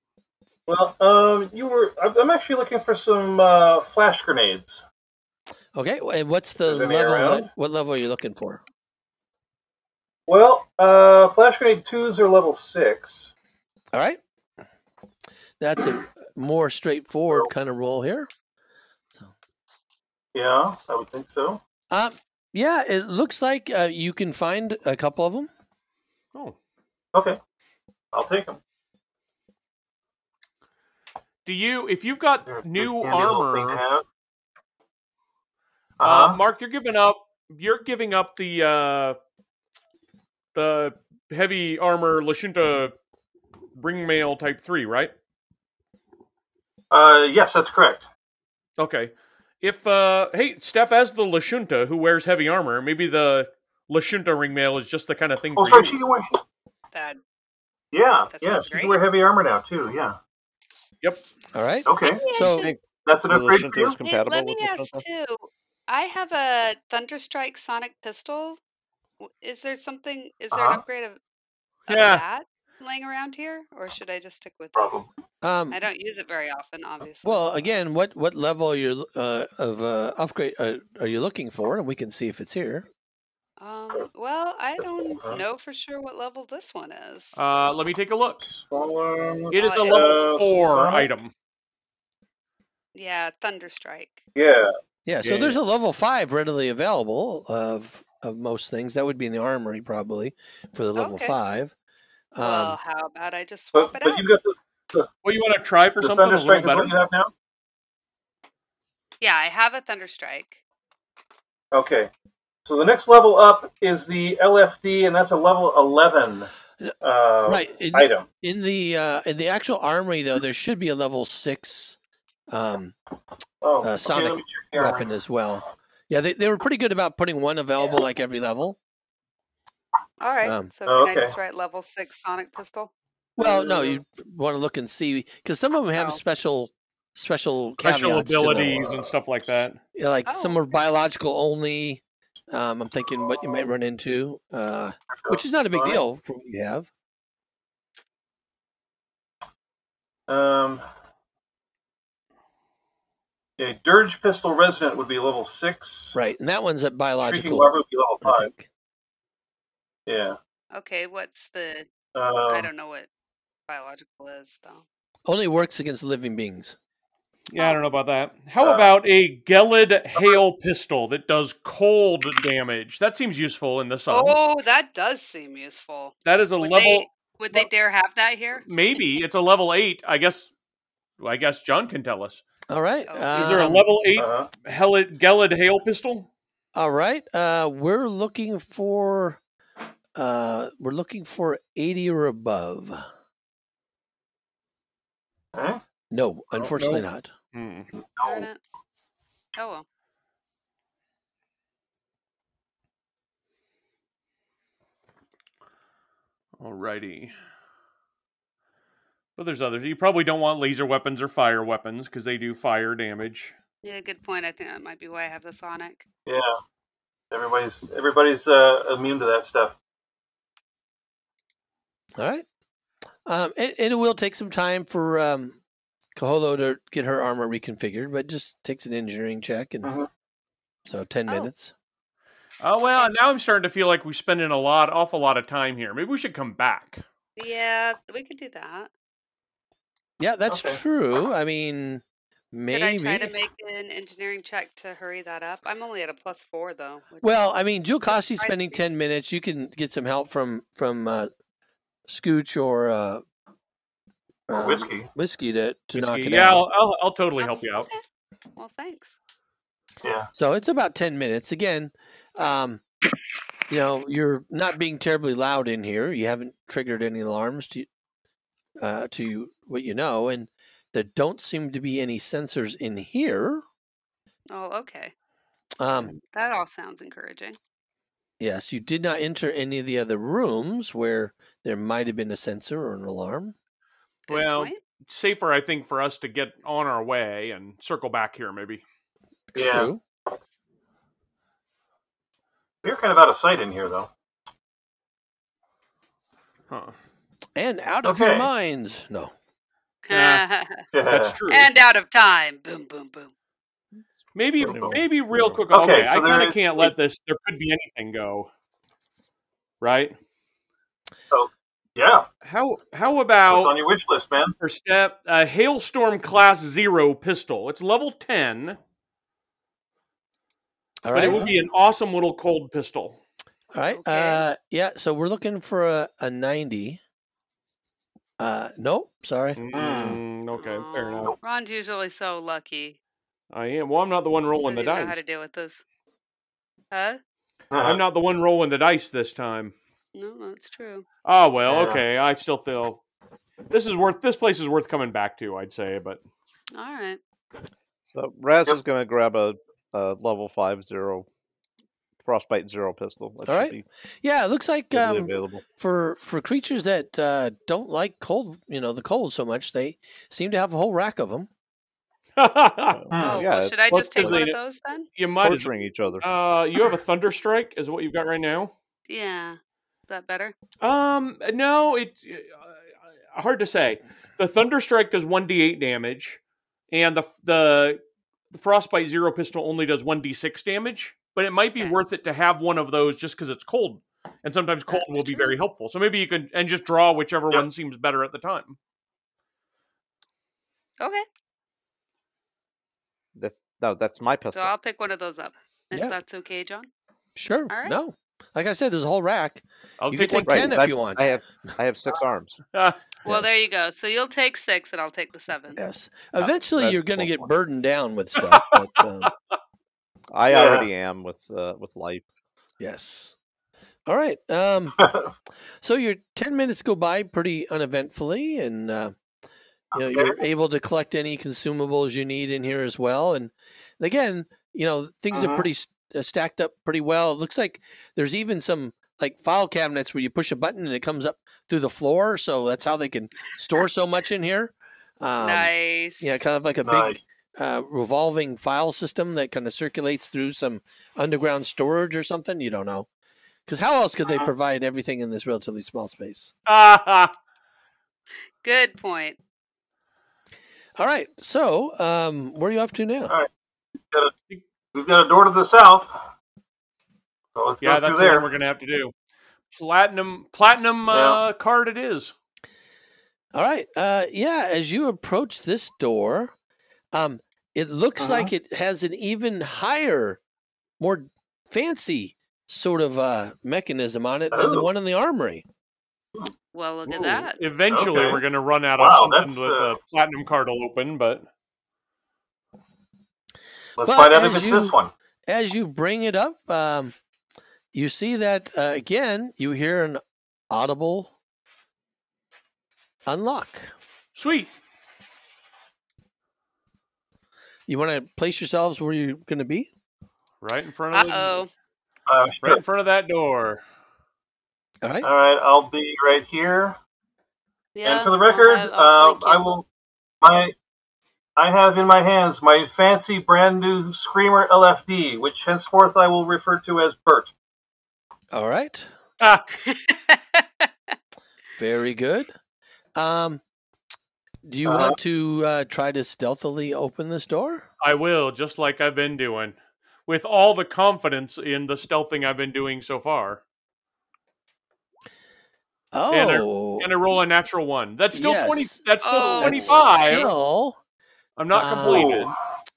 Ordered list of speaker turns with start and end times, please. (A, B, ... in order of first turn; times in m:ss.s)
0:00.7-0:04.8 A
0:05.7-0:08.6 B
0:06.6-0:07.5 A
0:10.3-0:13.3 A
0:13.9-0:14.2 B
0:15.6-0:18.3 B
0:20.3-0:21.6 A
0:21.9-0:25.5 B
0:27.1-0:27.4 A
0:28.1-0:28.6 A
0:31.4-0:33.8 C
0:32.5-0:34.0 A
0:36.0-0:36.4 A
0:36.0-0:39.2 C
0:40.5-0:42.9 C
0:43.7-0:45.1 C
0:46.9-0:48.0 A
0:48.8-0:56.0 C
0:55.6-0:56.4 A
0:56.9-0:57.2 D
0:57.9-1:00.2 A
0:58.3-0:59.0 D
1:01.5-1:02.7 B
1:01.8-1:02.2 A
1:02.0-1:02.7 D
1:02.5-1:05.0 E
1:03.0-1:04.0 A
1:04.0-1:08.6 D
1:09.2-1:11.2 D
1:10.5-1:10.8 A
1:11.9-1:15.0 D
1:11.9-1:12.2 C
1:14.7-1:15.1 A
1:15.4-1:15.8 B
1:15.7-1:17.7 D
1:17.2-1:22.8 B
1:23.6-1:27.4 D
1:24.8-1:25.4 A
1:27.4-1:28.4 C
1:28.4-1:31.1 A
1:29.5-1:31.3 C
1:29.6-1:30.2 D
1:32.9-1:34.2 D
1:34.3-1:34.7 A
1:35.0-1:41.7 B
1:35.2-1:35.5 A
1:41.0-1:41.4 D
1:42.3-1:42.8 B
1:42.4-1:44.3 D
1:43.7-1:45.1 A
1:45.2-1:46.9 C
1:46.0-1:47.3 A
1:49.2-1:50.6 D
1:51.7-1:52.1 A
1:52.6-1:56.5 A
1:57.0-1:58.3 A
1:57.4-2:02.0 B
2:02.5-2:02.9 B
2:03.6-2:05.1 A
2:03.8-2:08.8 B
2:10.2-2:12.9 D
2:10.4-2:10.7 B
2:10.9-2:11.3 A
2:13.4-2:18.9 B
2:13.4-2:14.0 A
2:17.8-2:19.8 C
2:18.6-2:19.0 A
2:19.9-2:26.9 B
2:20.2-2:20.6 D
2:25.3-2:26.0 A
2:30.3-2:30.8 A
2:33.6-2:36.1 A
2:36.1-2:37.7 B
2:37.2-2:38.5 A
2:38.2-2:38.7 B
2:40.1-2:40.4 A
2:40.7-2:41.9 D
2:42.1-2:42.7 A
2:42.5-2:43.1 D
2:43.7-2:44.8 D
2:45.2-2:46.7 B
2:47.5-2:54.4 C
2:48.6-2:48.9 A
2:54.1-2:59.0 D
2:56.2-2:57.1 C
2:58.6-3:00.5 C
3:01.2-3:02.4 C
3:02.7-3:03.8 B
3:03.1-3:03.8 D
3:03.3-3:06.3 C
3:04.1-3:04.5 A
3:06.7-3:09.4 B
3:10.2-3:13.0 B
3:15.5-3:15.8 A
3:16.1-3:17.3 B
3:16.6-3:17.0 A
3:17.5-3:17.9 C
3:18.0-3:18.5 A
3:18.2-3:18.6 D
3:19.5-3:19.8 D
3:26.6-3:27.3 C
3:29.4-3:33.5 C
3:33.8-3:36.0 D
3:36.2-3:36.5 A
3:37.3-3:39.7 A
3:42.2-3:42.4 B
3:43.2-3:45.6 B
3:46.2-3:49.9 B
3:50.9-3:51.7 B
3:52.6-3:57.0 C
3:57.4-3:58.9 D
4:00.2-4:03.3 B
4:00.5-4:00.8 A
4:02.7-4:07.5 D
4:07.2-4:11.3 B
4:08.0-4:08.8 D
4:12.1-4:13.2 B
4:14.5-4:16.6 B
4:14.5-4:15.1 A
4:16.0-4:17.9 C
4:17.4-4:18.0 D
4:18.6-4:19.1 D
4:20.0-4:20.3 A
4:20.4-4:22.8 B
4:23.7-4:27.9 B
4:28.8-4:33.6 B
4:34.5-4:35.1 D
4:35.8-4:36.1 B
4:36.3-4:37.6 D
4:38.4-4:43.5 B
4:44.3-4:44.8 D
4:44.3-4:48.8 C
4:49.5-4:50.0 B
4:49.6-4:49.9 A
4:52.8-4:54.1 A
4:56.7-4:56.9 C
4:57.6-4:59.3 B
4:58.0-4:58.5 A
5:00.0-5:00.9 D
5:00.1-5:00.4 C
5:00.9-5:01.4 A
5:01.0-5:01.7 C
5:01.5-5:03.3 D
5:04.3-5:08.5 C
5:04.6-5:05.6 E
5:04.7-5:05.0 A
5:05.7-5:06.9 A
5:09.8-5:10.1 C
5:11.3-5:12.2 A
5:12.4-5:13.7 C
5:13.5-5:14.5 A
5:14.6-5:18.8 C
5:21.0-5:21.4 B
5:21.1-5:23.2 C
5:21.2-5:21.5 A
5:23.7-5:27.0 B
5:23.9-5:24.5 D
5:28.4-5:29.6 B
5:29.6-5:31.3 C
5:29.7-5:30.2 A
5:30.5-5:33.0 D
5:33.5-5:35.2 C
5:34.5-5:35.8 D
5:36.9-5:37.2 D
5:37.7-5:38.0 A
5:37.8-5:39.7 C
5:40.1-5:41.0 D
5:41.2-5:43.0 C
5:41.7-5:42.0 A
5:43.7-5:46.2 C
5:46.7-5:47.2 D
5:48.1-5:51.2 E
5:52.2-5:53.8 E
5:53.4-6:01.5 B
5:54.9-5:55.6 E
6:02.4-6:03.0 C
6:02.9-6:04.4 E
6:03.1-6:03.4 A
6:03.2-6:05.1 D
6:04.0-6:04.6 C
6:05.2-6:08.7 C
6:05.4-6:06.2 E
6:09.1-6:10.5 D
6:10.8-6:12.8 C
6:13.3-6:16.4 C
6:16.9-6:28.8 C
6:24.9-6:25.6 D
6:31.0-6:31.2 D
6:33.4-6:34.7 E
6:34.5-6:36.9 D
6:37.4-6:41.2 B
6:37.7-6:38.0 D
6:40.0-6:40.7 C
6:40.4-6:42.6 E
6:43.2-6:45.8 D
6:43.2-6:43.6 B
6:45.7-6:49.3 B
6:46.4-6:47.5 E
6:50.3-6:52.2 E
6:50.5-6:50.9 A
6:52.8-6:53.3 B
6:54.0-6:55.0 B
6:55.0-6:55.3 A
6:55.8-6:59.1 B
6:59.9-7:23.1 B
7:00.0-7:00.4 A
7:05.3-7:05.6 A
7:15.4-7:16.3 D
7:16.8-7:17.2 A
7:23.7-7:26.5 B
7:26.6-7:27.3 C
7:28.6-7:29.4 D
7:31.0-7:33.3 B
7:34.9-7:36.1 A
7:37.6-7:38.5 A
7:37.8-7:39.1 C
7:39.7-7:42.3 C
7:41.1-7:41.4 A
7:43.5-7:46.5 B
7:47.1-7:50.4 B
7:48.2-7:48.5 A
7:51.0-7:55.6 B
7:54.5-7:54.9 A
7:56.7-7:57.6 D
7:57.0-8:01.4 C
7:57.9-7:58.4 A
7:59.0-7:59.9 A
8:04.0-8:05.1 A
8:04.0-8:05.0 B
8:05.5-8:07.1 B
8:07.9-8:11.3 B
8:13.3-8:13.9 B
8:14.4-8:14.7 C
8:17.9-8:19.9 B
8:20.6-8:21.6 C
8:21.1-8:21.7 D
8:22.3-8:22.8 A
8:22.6-8:23.8 C
8:25.0-8:25.3 B
8:25.2-8:27.0 A
8:27.9-8:29.6 D
8:28.0-8:29.8 A
8:30.4-8:30.7 A
8:31.6-8:37.5 A
8:38.5-8:39.1 B
8:39.4-8:39.6 C
8:39.8-8:40.9 D
8:41.8-8:42.5 B
8:43.2-8:43.6 B
8:44.6-8:47.8 B
8:44.8-8:45.2 A
8:48.0-8:49.7 C
8:50.3-8:53.6 C
8:56.1-8:57.1 B
8:56.3-9:00.5 C
8:58.3-8:59.0 B
8:59.2-9:00.5 D
8:59.5-9:01.0 B
9:01.6-9:02.5 C
9:01.7-9:02.4 B
9:02.1-9:02.5 A